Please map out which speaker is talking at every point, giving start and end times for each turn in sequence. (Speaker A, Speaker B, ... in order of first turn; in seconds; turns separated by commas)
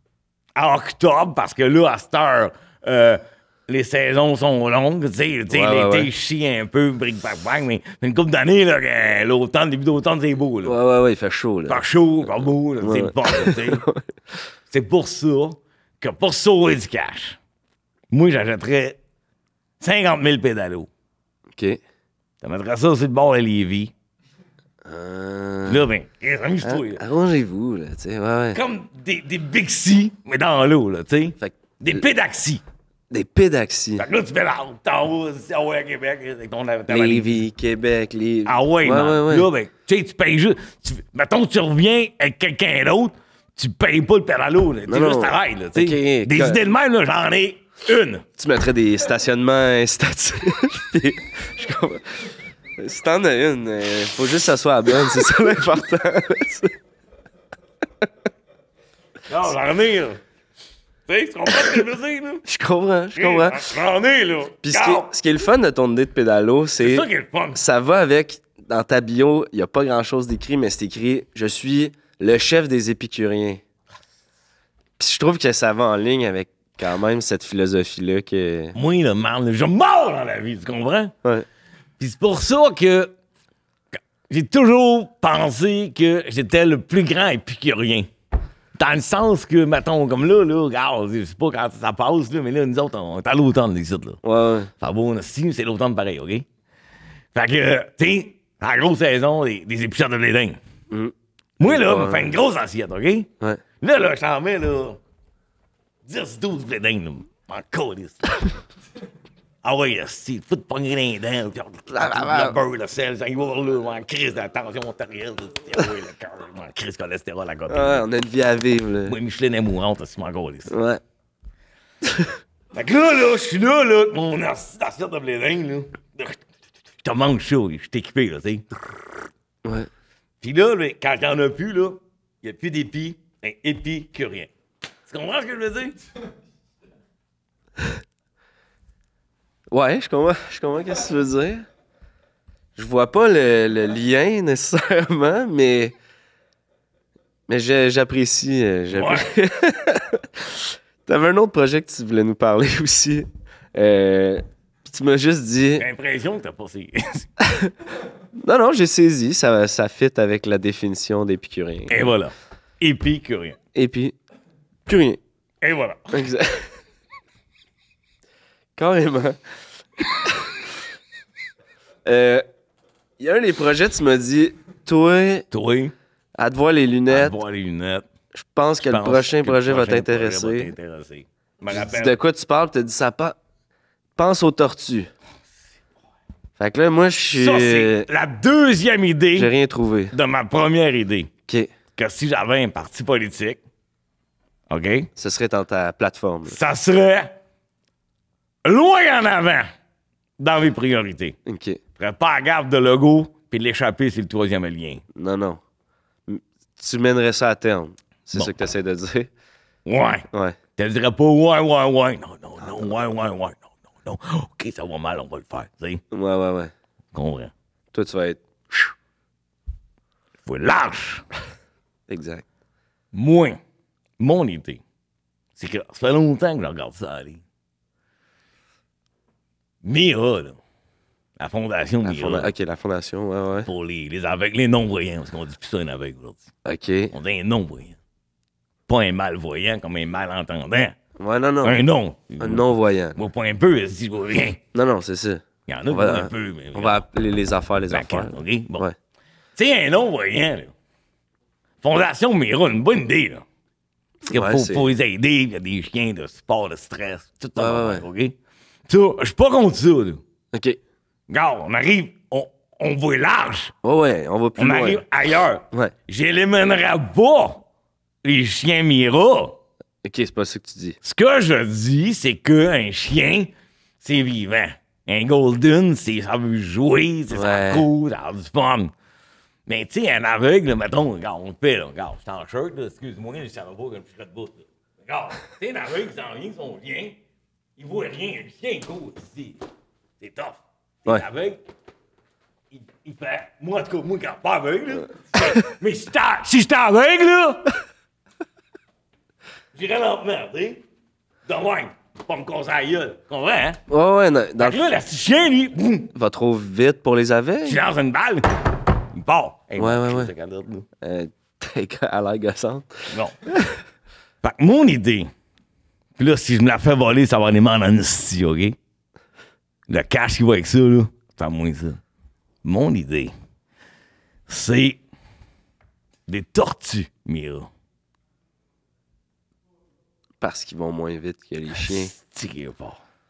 Speaker A: 0.6-10.8, Speaker B: 5.5-6.1, Speaker B: 10.6-11.8, Speaker A: 11.7-13.8, Speaker B: 12.8-14.1, Speaker A: 14.7-17.4, Speaker A: 18.1-19.0, Speaker A: 19.8-20.9, Speaker B: 21.6-21.8, Speaker A: 22.4-23.9, Speaker B: 24.9-25.9, Speaker A: 25.7-27.0, Speaker B: 26.6-28.6, Speaker A: 28.5-32.6, Speaker B: 33.1-34.1, Speaker A: 34.0-37.4, Speaker B: 36.9-39.5, Speaker A: 38.4-48.2, Speaker B: 44.9-46.6, Speaker B: 48.4-56.7, Speaker A: 59.3-60.2, Speaker A: 61.1-62.4, Speaker B: 62.5-63.6, Speaker A: 63.1-65.1, Speaker B: 64.6-73.6, Speaker A: 66.8-67.6, Speaker B: 75.0-78.8, Speaker A: 78.8-81.1, Speaker A: 82.0-83.1, Speaker A: 84.3-88.1, Speaker A: 88.8-94.2, Speaker B: 94.2-94.7, Speaker A: 94.8-96.5, Speaker A: 97.3-100.6, Speaker B: 100.9-102.3, Speaker A: 101.6-103.3, Speaker A: 103.8-105.0, Speaker A: 106.0-108.5, Speaker A: 109.6-118.0, Speaker B: 111.9-112.6, Speaker B: 117.7-119.2, Speaker A: 119.1-120.7, Speaker B: 120.7-121.0, Speaker B: 122.0-122.3, Speaker A: 122.7-126.4, Speaker A: 127.0-128.7, Speaker B: 129.6-129.9, Speaker A: 130.4-134.5, Speaker A: 135.1-136.0, Speaker B: 139.7-141.7, Speaker B: 142.8-145.9, Speaker B: 147.5-155.9, Speaker A: 148.9-149.3, Speaker A: 155.8-157.3, Speaker B: 157.4-157.7, Speaker B: 158.4-162.1, Speaker A: 161.9-163.6, Speaker B: 163.7-164.2, Speaker B: 164.9-165.2, Speaker A: 165.6-166.3, Speaker B: 166.1-166.7, Speaker B: 168.8-169.4, Speaker B: 170.1-170.5, Speaker B: 172.1-172.4, Speaker B: 173.2-175.5, Speaker A: 175.5-175.9, Speaker B: 176.4-177.4, Speaker A: 177.1-178.1, Speaker B: 178.3-180.7, Speaker A: 178.8-182.2, Speaker B: 181.7-183.4, Speaker B: 184.2-185.1, Speaker B: 186.6-188.1, Speaker A: 187.3-189.5, Speaker B: 189.3-190.2, Speaker A: 190.1-191.3, Speaker A: 191.9-193.6, Speaker A: 194.7-195.1, Speaker B: 195.2-196.6, Speaker A: 196.4-197.3, Speaker A: 198.6-199.7, Speaker A: 200.4-201.4, Speaker B: 201.4-201.8, Speaker A: 202.0-205.0, Speaker B: 205.1-205.6, Speaker B: 206.3-209.3, Speaker A: 209.9-216.0, Speaker B: 210.3-210.6, Speaker B: 212.6-212.9, Speaker B: 216.1-216.7, Speaker A: 217.1-217.5, Speaker B: 217.9-218.9, Speaker A: 220.4-221.2, Speaker B: 222.1-222.4, Speaker A: 223.1-223.6, Speaker A: 224.2-224.8, Speaker A: 225.6-227.4, Speaker A: 229.8-230.6, Speaker A: 231.4-232.5, Speaker B: 232.0-233.7, Speaker A: 233.7-236.5, Speaker B: 236.6-237.1, Speaker A: 237.1-238.0, Speaker A: 238.9-240.9, Speaker B: 241.2-241.8, Speaker A: 241.6-244.6, Speaker B: 242.4-243.2, Speaker B: 244.7-248.9, Speaker A: 245.7-247.0, Speaker A: 247.9-248.8, Speaker A: 249.6-250.7, Speaker A: 251.8-253.4, Speaker B: 254.3-254.9, Speaker A: 254.3-258.4, Speaker B: 257.6-258.1, Speaker A: 258.9-260.2, Speaker B: 260.5-260.8, Speaker A: 261.3-263.7, Speaker B: 263.8-265.0, Speaker A: 264.6-267.6, Speaker A: 268.2-269.6, Speaker B: 270.0-271.0, Speaker A: 271.0-278.9, Speaker B: 277.3-277.9, Speaker A: 279.7-287.2, Speaker A: 287.8-289.6, Speaker A: 290.2-291.6, Speaker A: 292.7-297.7, Speaker A: 299.7-300.8, Speaker A: 301.4-303.8, Speaker B: 303.9-304.8, Speaker A: 304.6-306.1, Speaker B: 306.1-307.8, Speaker A: 307.6-310.9, Speaker B: 309.8-310.3, Speaker B: 311.0-313.8, Speaker A: 313.1-313.4, Speaker A: 314.4-315.3, Speaker A: 316.2-318.8, Speaker A: 319.9-322.0, Speaker A: 322.6-323.3, Speaker A: 324.5-325.0, Speaker A: 326.3-327.7, Speaker B: 330.4-332.1, Speaker A: 331.8-333.0